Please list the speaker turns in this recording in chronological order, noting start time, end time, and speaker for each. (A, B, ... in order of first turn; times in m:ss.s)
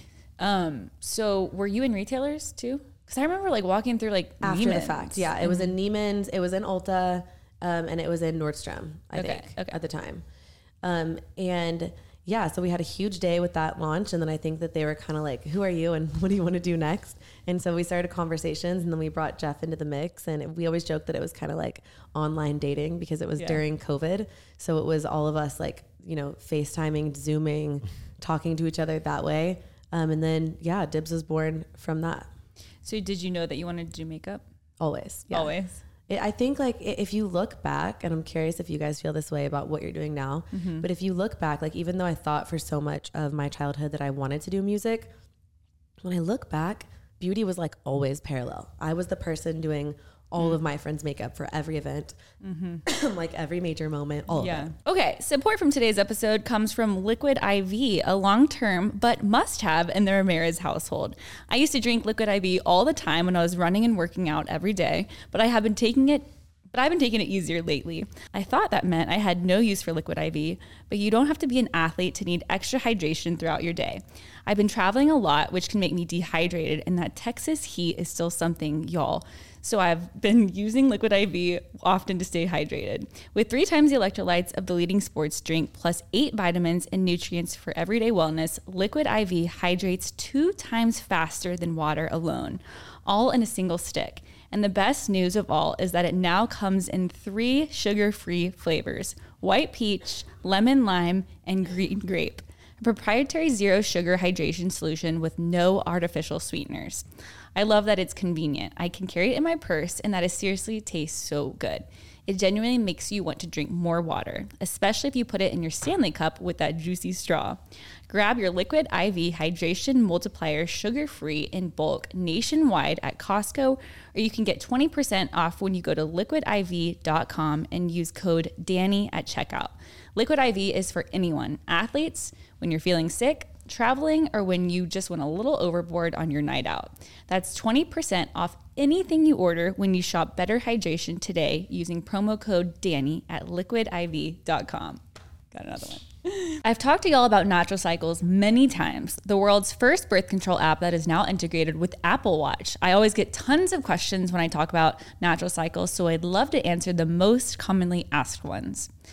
0:00.4-0:05.7 A
0:04.4-0:10.2 B
0:09.2-0:09.8 A
0:10.8-0:32.3 B
0:23.4-0:23.6 A
0:32.8-0:34.4 A
0:34.8-0:35.6 B
0:35.3-0:35.8 A
0:36.1-0:45.1 B
0:40.5-0:40.9 A
0:46.0-0:52.2 B
0:52.4-0:52.8 A
0:52.9-0:54.7 B
0:54.3-2:38.9 A